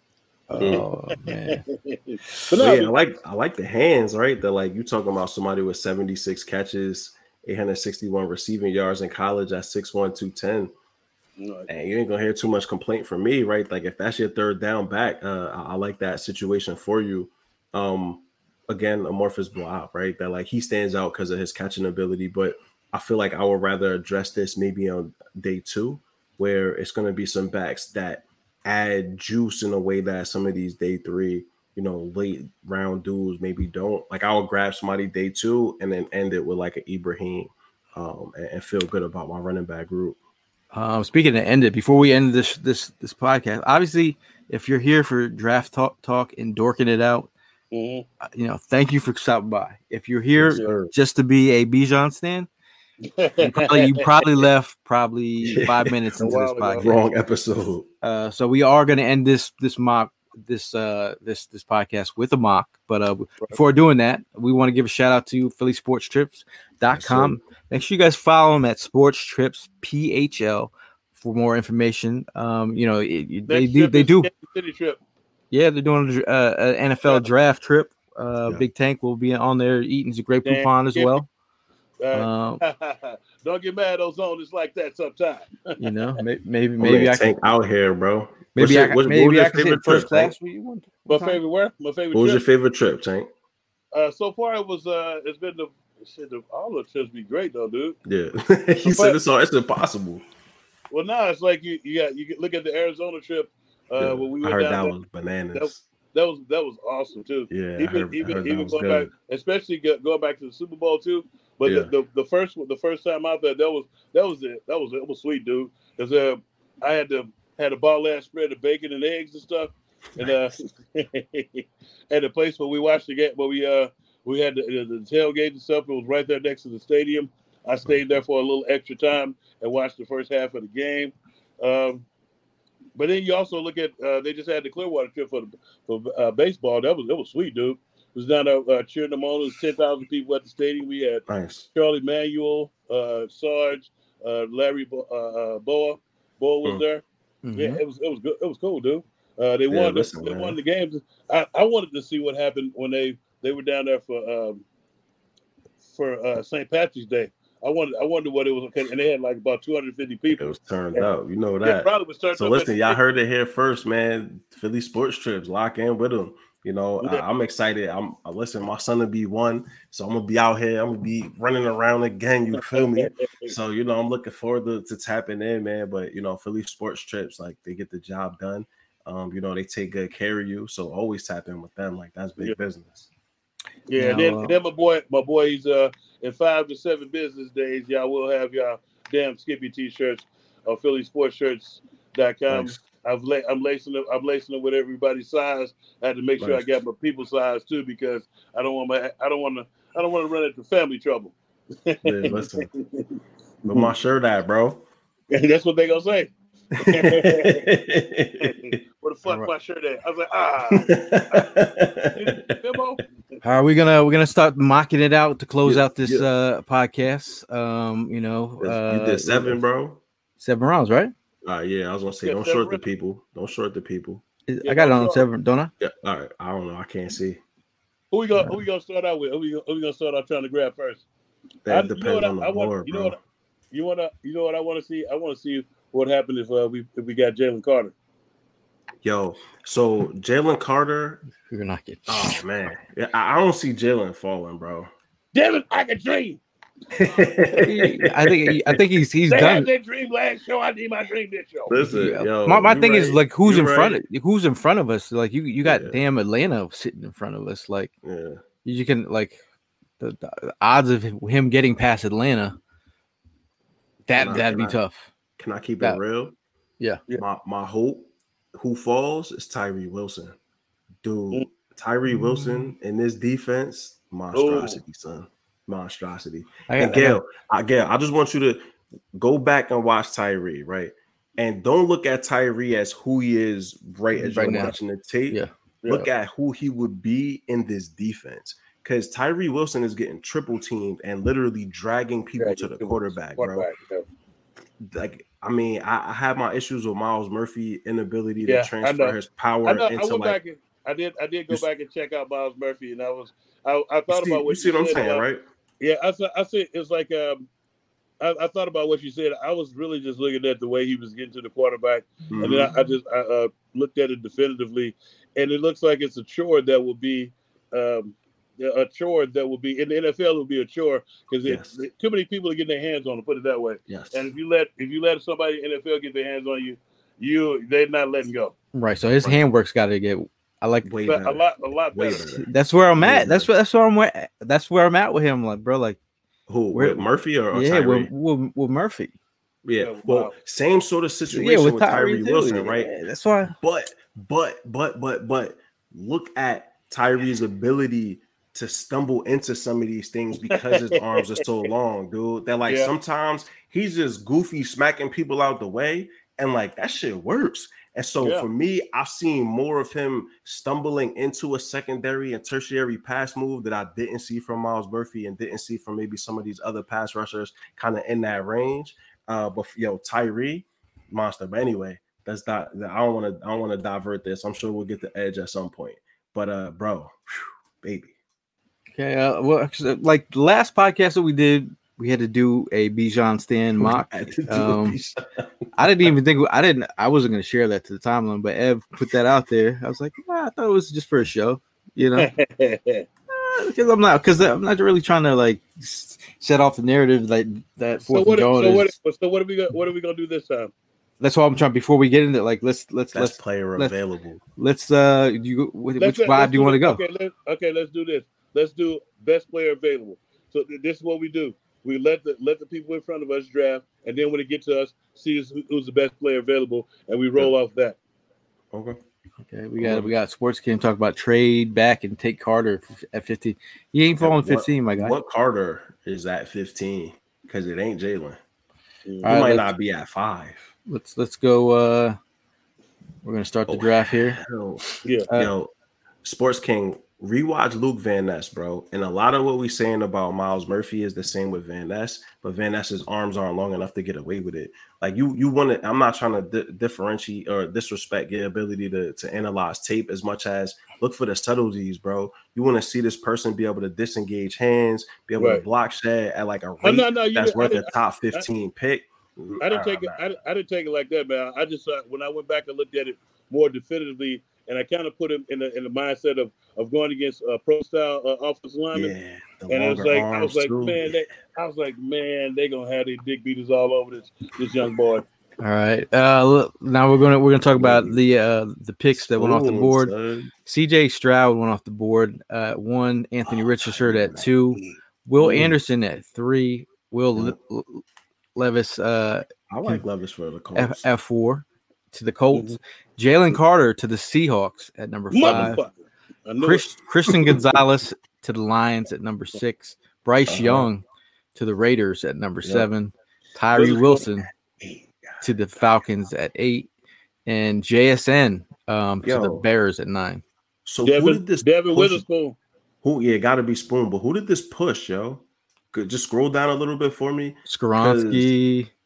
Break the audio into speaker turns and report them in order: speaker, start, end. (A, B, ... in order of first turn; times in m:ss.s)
0:00.5-0:01.6 A
0:00.6-0:03.0 B
0:00.6-0:00.8 C
0:02.6-0:10.7 C
0:11.4-0:11.7 B
0:11.7-0:40.2 C
0:40.7-0:47.3 A
0:47.7-0:48.0 B
0:48.2-0:52.5 A
0:50.4-0:50.9 C
0:53.1-0:54.0 B
0:53.4-0:57.0 A
0:55.5-0:57.9 C
0:56.2-0:57.0 B
0:58.0-1:14.3 A
1:07.0-1:07.4 C
1:13.5-1:15.0 B
1:15.5-1:21.3 A
1:20.4-1:21.2 B
1:22.0-1:25.8 B
1:22.1-1:22.6 A
1:25.8-1:27.3 A
1:26.8-1:30.4 C
1:28.6-1:31.4 A
1:31.1-1:32.4 B
1:32.1-1:33.3 C
1:33.9-1:38.0 B
1:38.1-1:40.2 C
1:38.8-1:39.2 B
1:40.9-1:45.0 B
1:44.0-1:45.8 C
1:45.5-2:12.1 B
1:47.5-1:49.1 C
1:51.6-1:51.9 C
2:13.0-2:21.2 B
2:21.3-2:21.7 C
2:21.8-2:27.0 B
2:27.4-2:27.8 A
2:27.6-2:34.6 B
2:29.7-2:30.6 C
2:35.9-2:40.4 B
2:40.4-3:03.1 C
2:41.6-2:43.0 B
2:52.7-2:53.5 B
3:03.9-3:23.9 B
3:04.0-3:04.6 A
3:12.5-3:12.8 C
3:16.4-3:16.7 C
3:22.0-3:22.7 C
3:23.7-3:24.8 C
3:25.3-3:27.7 B
3:26.8-3:28.8 C
3:28.4-3:31.5 B
3:29.3-3:29.5 A
3:30.7-3:32.5 C
3:32.1-3:33.0 B
3:33.4-3:39.6 A
3:35.6-3:36.3 C
3:38.6-3:40.0 C
3:40.4-3:41.1 A
3:41.4-3:44.2 C
3:42.2-3:42.8 B
3:44.5-3:45.7 A
3:44.6-3:45.3 B
3:45.8-3:47.4 C
3:48.1-3:51.1 B
3:51.7-3:53.2 C
3:51.7-3:53.2 B
3:53.7-3:57.9 B
3:59.0-4:01.2 C
4:01.5-4:02.4 A
4:02.1-4:04.9 C
4:05.3-4:06.4 B
4:07.0-4:08.8 C
4:07.6-4:09.7 A
4:09.3-4:11.8 B
4:11.7-4:14.0 C
4:11.8-4:17.9 A
4:15.6-4:16.0 C
4:18.0-4:18.4 C
4:18.6-4:19.4 A
4:20.0-4:22.6 A
4:24.1-4:25.1 A
4:24.2-4:24.8 C
4:25.4-4:26.4 C
4:27.2-4:30.4 C
4:31.0-4:53.7 C
4:32.1-4:32.7 A
4:34.3-4:34.8 B
4:36.7-4:37.2 A
4:44.2-4:44.8 A
4:52.4-4:54.0 B
4:54.8-5:00.4 C
4:58.4-5:05.2 B
5:04.1-5:05.4 C
5:05.8-5:07.5 B
5:08.2-5:28.6 B
5:12.3-5:12.7 C
5:21.4-5:21.8 C
5:23.9-5:24.3 C
5:28.7-5:30.9 A
5:30.8-5:33.5 C
5:31.1-5:32.3 B
5:32.5-5:36.0 A
5:36.5-5:38.1 C
5:36.7-5:39.1 A
5:39.6-5:42.9 C
5:39.8-5:40.4 B
5:41.3-5:43.6 A
5:43.6-6:18.1 C
5:50.5-5:51.4 B
5:52.7-5:52.9 B
5:58.2-5:58.5 B
6:19.0-6:25.0 A
6:23.8-6:26.1 C
6:25.8-6:32.3 A
6:32.2-6:33.1 B
6:33.3-6:38.9 A
6:38.1-6:40.7 B
6:41.2-6:44.0 A
6:43.1-6:44.4 C
6:44.6-6:47.0 A
6:46.0-6:58.0 B
6:58.7-6:59.0 C
6:59.5-7:05.2 A
6:59.8-7:00.1 C
7:04.2-7:08.4 C
7:09.1-7:09.4 B
7:09.2-7:09.7 A
7:09.2-7:10.7 C
7:10.9-7:12.2 A
7:13.2-7:14.4 A
7:13.7-7:15.7 C
7:16.2-7:40.2 C
7:35.4-7:35.6 B
7:36.8-7:38.5 B
7:39.6-7:49.1 B
7:48.9-7:51.2 C
7:49.7-7:55.3 B
7:55.6-8:00.1 A
7:57.8-7:58.2 C
7:59.1-8:00.5 C
8:00.6-8:08.0 A
8:03.5-8:04.9 C
8:05.4-8:05.8 C
8:08.6-8:10.0 A
8:09.7-8:11.1 C
8:10.8-8:15.8 A
8:12.5-8:12.8 B
8:15.3-8:15.9 B
8:15.4-8:15.8 C
8:16.4-8:16.8 B
8:16.6-8:21.0 A
8:20.5-8:20.9 C
8:21.6-8:24.5 A
8:22.6-8:22.9 C
8:23.8-8:24.2 B
8:24.8-8:25.4 C
8:25.4-8:26.9 A
8:27.5-8:30.4 A
8:29.2-8:29.7 C
8:30.9-8:32.2 C
8:31.0-8:32.6 B
8:33.0-8:38.6 C
8:37.7-8:38.9 A